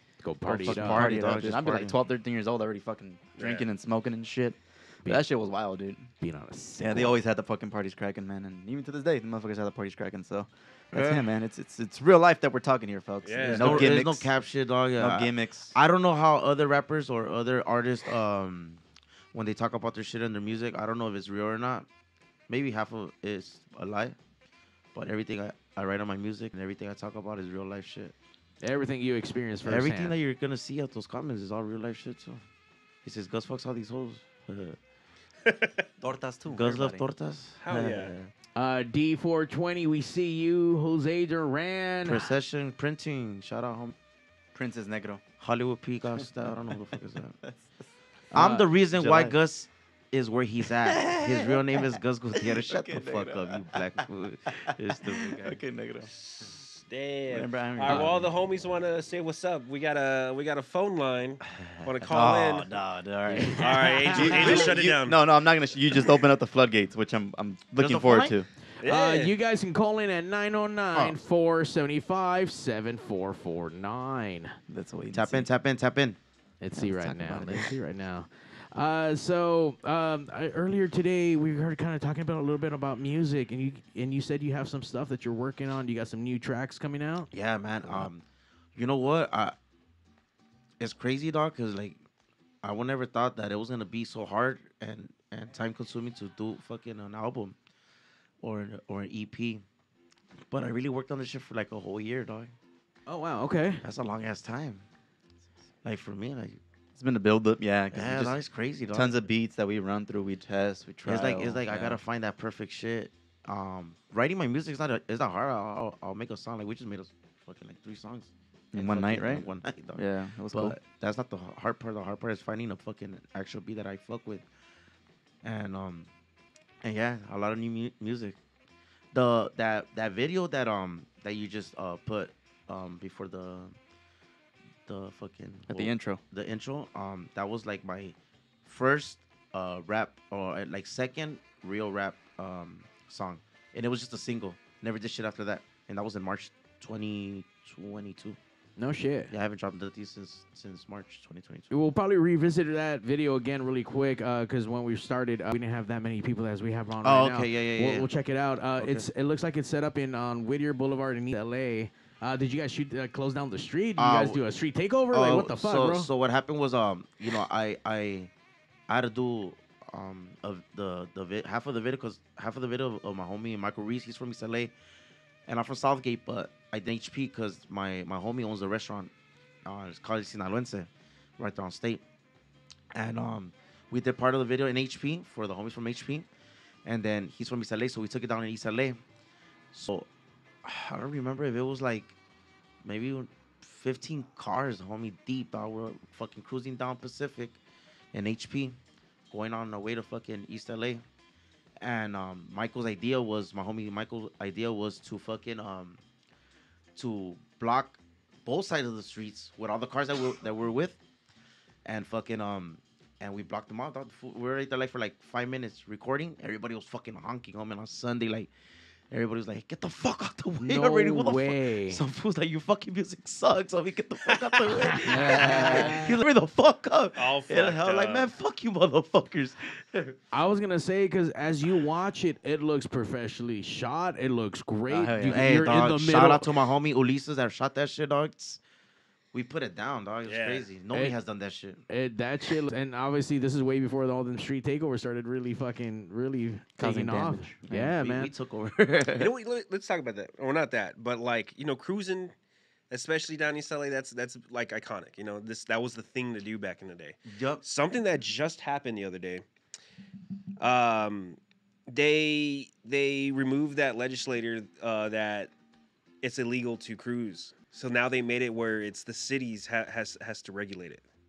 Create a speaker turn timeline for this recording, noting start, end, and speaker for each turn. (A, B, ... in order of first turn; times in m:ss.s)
0:00.2-0:01.3 A
0:00.4-0:06.1 B
0:00.5-0:02.0 C
0:03.4-0:03.7 D
0:06.2-0:07.2 A
0:06.8-0:14.3 B
0:10.9-0:11.2 C
0:13.2-0:13.9 D
0:13.5-0:18.8 C
0:15.0-0:15.7 B
0:19.3-0:21.9 C
0:22.5-0:24.2 C
0:24.9-0:28.1 C
0:28.6-0:30.1 A
0:29.6-0:32.4 C
0:33.0-0:34.8 C
0:35.4-0:35.8 D
0:36.0-0:37.0 B
0:36.5-0:38.3 C
0:37.6-0:38.1 D
0:38.6-0:42.3 A
0:42.0-0:43.9 C
0:44.5-0:45.2 B
0:45.4-0:47.3 C
0:46.2-0:47.6 B
0:48.3-0:49.3 A
0:48.3-0:55.6 C
0:49.0-0:49.4 B
0:50.6-0:54.0 B
0:54.6-0:56.1 B
0:56.2-1:02.7 D
0:57.3-0:58.3 B
1:02.0-1:08.5 B
1:03.3-1:04.7 A
1:03.6-1:05.2 D
1:07.7-1:08.3 C
1:08.8-1:09.3 D
1:08.8-1:14.6 A
1:14.7-1:15.5 B
1:15.1-1:16.2 C
1:16.6-1:27.3 A
1:16.8-1:17.7 B
1:27.3-1:28.2 C
1:28.8-1:29.5 C
1:30.8-1:32.0 C
1:32.6-1:37.6 C
1:38.4-1:39.6 C
1:40.5-1:42.5 C
1:43.1-1:43.8 A
1:43.8-1:44.8 C
1:45.8-1:46.6 C
1:46.9-1:48.4 B
1:47.9-1:49.2 C
1:48.9-1:52.0 B
1:51.0-2:04.4 C
1:58.7-2:00.8 B
2:05.4-2:06.1 C
2:06.8-2:08.4 C
2:09.1-2:13.7 C
2:14.8-2:28.4 C
2:15.7-2:16.2 B
2:28.8-2:29.3 A
2:29.3-2:31.7 C
2:31.7-2:46.1 A
2:37.0-2:38.1 C
2:38.8-2:39.1 C
2:44.0-2:44.4 C
2:45.1-2:48.3 C
2:48.9-2:54.7 C
2:55.5-2:59.1 C
2:59.6-3:02.0 C
3:02.9-3:06.2 C
3:06.8-3:09.0 C
3:09.7-3:10.1 C
3:10.6-3:12.1 C
3:12.8-3:17.6 C
3:18.1-3:18.8 C
3:19.3-3:21.0 C
3:21.8-3:26.0 C
3:27.0-3:31.0 C
3:31.8-3:38.5 C
3:39.1-3:50.1 C
3:40.6-3:42.0 A
3:45.0-3:46.1 A
3:45.1-3:45.9 B
3:47.2-3:48.3 D
3:50.3-3:56.5 A
3:54.9-3:55.5 B
3:55.3-3:58.6 C
3:59.3-4:01.8 C
4:00.2-4:00.7 D
4:01.9-4:08.3 A
4:06.8-4:07.9 B
4:07.7-4:09.3 C
4:09.2-4:12.3 D
4:12.9-4:19.4 D
4:17.3-4:17.6 C
4:20.6-4:25.5 D
4:26.2-4:31.0 D